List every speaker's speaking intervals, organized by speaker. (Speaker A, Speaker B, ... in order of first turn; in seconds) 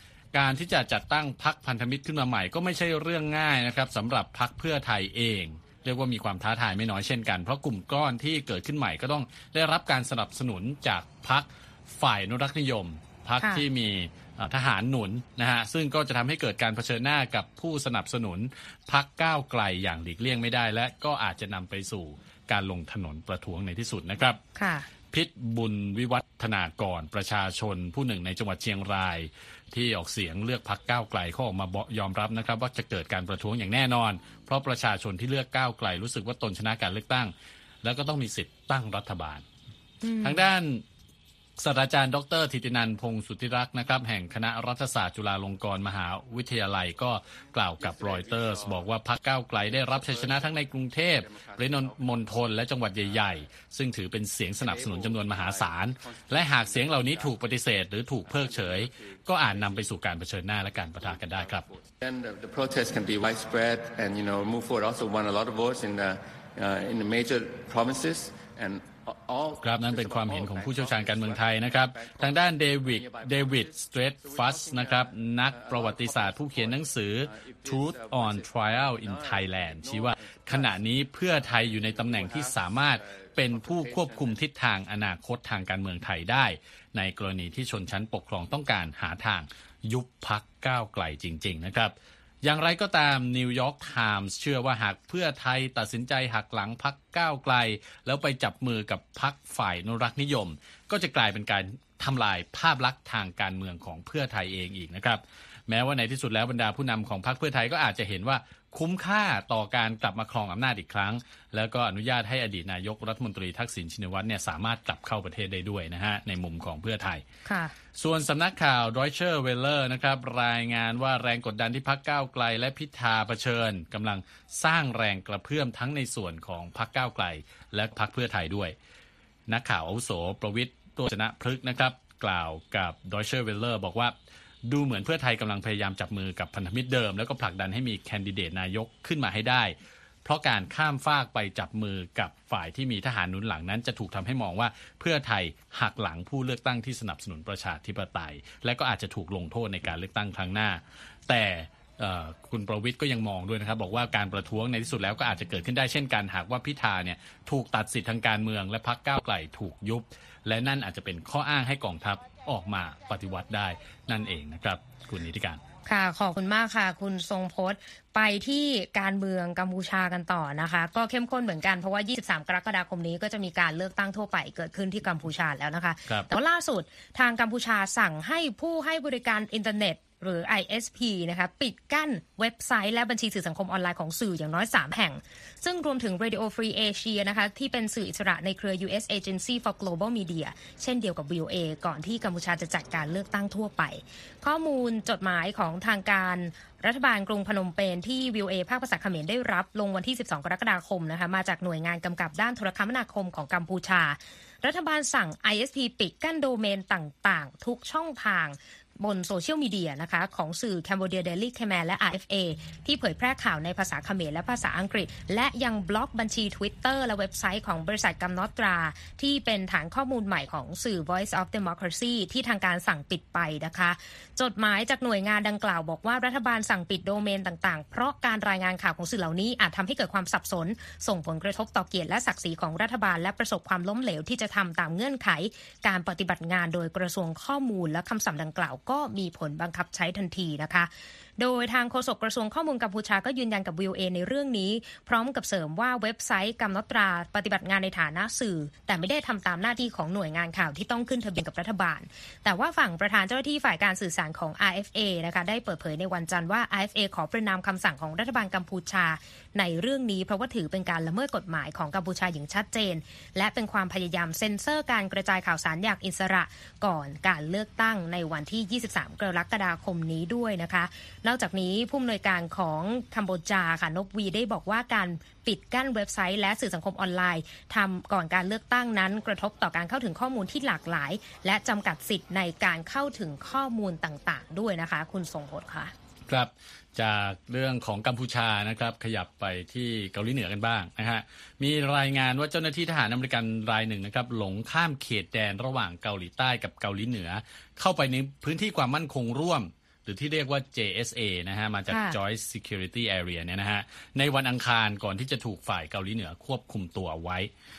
Speaker A: 0.3-24.4, 25.1-39.4, 40.2-40.8, 41.6-61.7, 69.6-117.2, 117.9-128.8, 129.5-165.6, 286.3-307.5
Speaker B: 13.4-13.6, 24.6-24.9, 40.0-40.4, 117.5-117.7, 165.8-285.9, 301.9-302.2
Speaker C: 47.8-48.8, 49.9-50.5, 51.2-52.0, 54.6-57.4, 58.2-59.9, 60.7-72.3, 72.8-80.7, 81.4-84.3